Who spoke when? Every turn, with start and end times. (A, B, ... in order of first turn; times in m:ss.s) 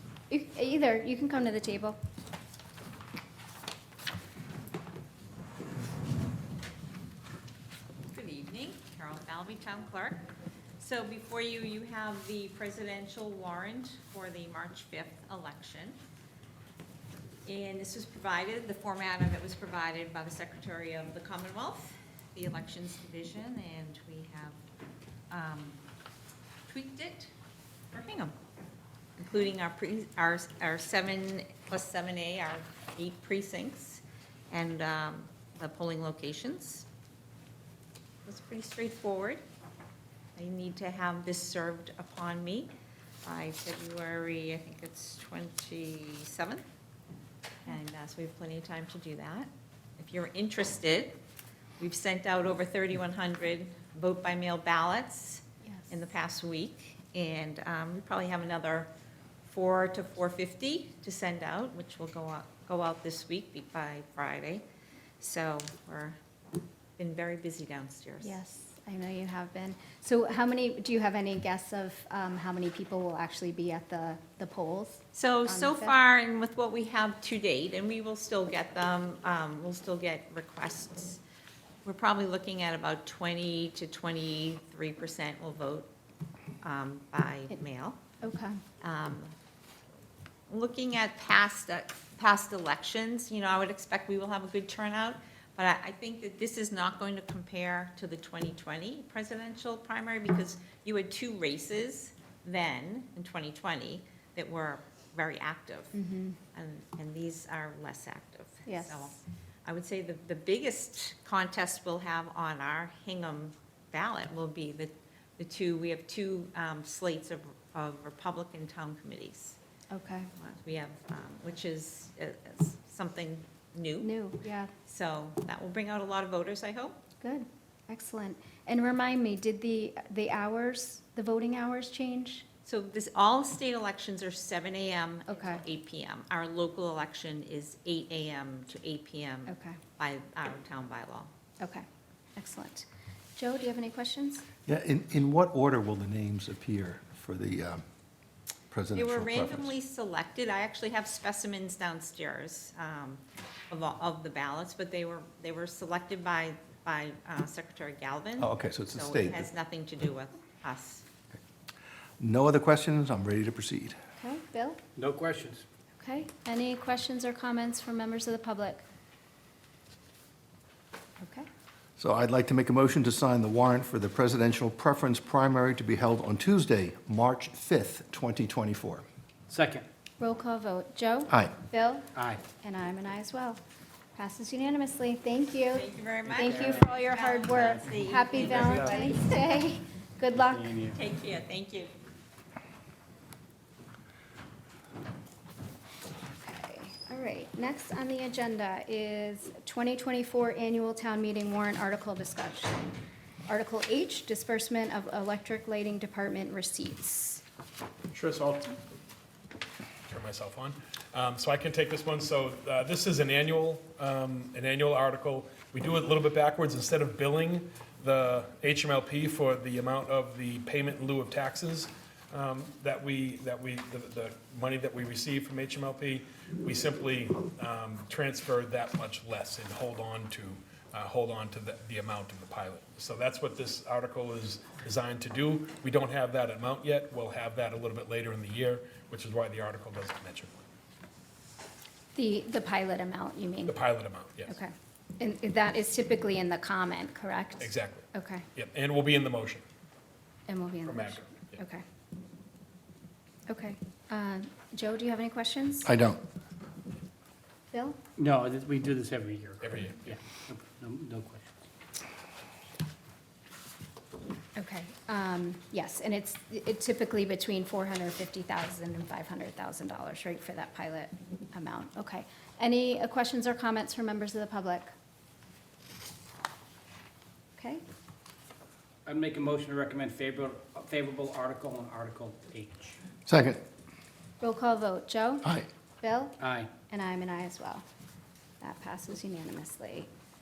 0:00.3-0:02.0 A
0:08.1-0:10.2 B
0:10.8-0:16.0 B
0:17.4-0:24.6 B
0:25.3-0:25.8 B
0:26.7-0:27.3 B
0:27.9-0:28.3 B
0:29.2-0:36.9 B
0:38.2-0:39.4 B
0:40.4-0:42.7 B
0:43.2-0:46.6 B
0:47.6-0:49.5 B
0:50.0-0:51.2 B
0:51.8-0:58.9 B
0:55.6-0:55.9 A
0:59.4-1:04.6 B
1:05.2-1:06.2 B
1:07.0-1:08.4 B
1:08.2-1:16.0 A
1:15.1-1:21.2 B
1:21.8-1:25.9 B
1:26.6-1:28.0 B
1:28.2-1:28.6 A
1:28.8-1:29.3 B
1:30.5-1:45.9 B
1:45.9-1:46.4 A
1:46.5-1:59.6 B
1:48.6-1:49.1 A
1:59.9-2:00.3 A
2:00.4-2:04.1 B
2:04.0-2:04.7 A
2:04.8-2:07.0 B
2:07.2-2:12.4 A
2:12.6-2:21.3 B
2:15.3-2:15.6 A
2:19.5-2:19.8 A
2:21.6-2:24.4 A
2:24.6-2:27.8 C
2:28.7-2:29.7 C
2:28.9-2:41.0 B
2:38.4-2:39.5 C
2:42.2-2:44.0 C
2:44.2-2:44.8 A
2:45.0-2:45.6 D
2:46.0-2:48.8 A
2:51.2-2:51.5 A
2:52.0-2:59.0 C
2:59.5-2:59.8 D
3:00.2-3:03.6 A
3:04.1-3:10.7 A
3:05.7-3:09.6 B
3:06.4-3:06.9 D
3:08.4-3:09.1 D
3:10.3-3:11.0 D
3:10.9-3:11.9 B
3:16.3-3:22.9 A
3:23.5-3:27.4 A
3:28.1-3:28.7 E
3:30.1-4:00.5 E
4:02.1-4:03.8 A
4:03.7-4:04.5 E
4:04.5-4:08.4 A
4:07.6-4:08.0 E
4:08.6-4:09.6 E
4:10.5-4:11.8 A
4:10.8-4:11.6 E
4:13.5-4:15.9 A
4:15.8-4:16.2 C
4:17.7-4:18.0 A
4:18.2-4:21.5 D
4:19.6-4:20.1 E
4:24.6-4:34.9 A
4:37.6-4:37.8 A
4:39.0-4:43.0 D
4:43.2-4:43.6 C
4:44.4-4:47.8 A
4:46.4-4:46.7 D
4:48.6-4:50.1 A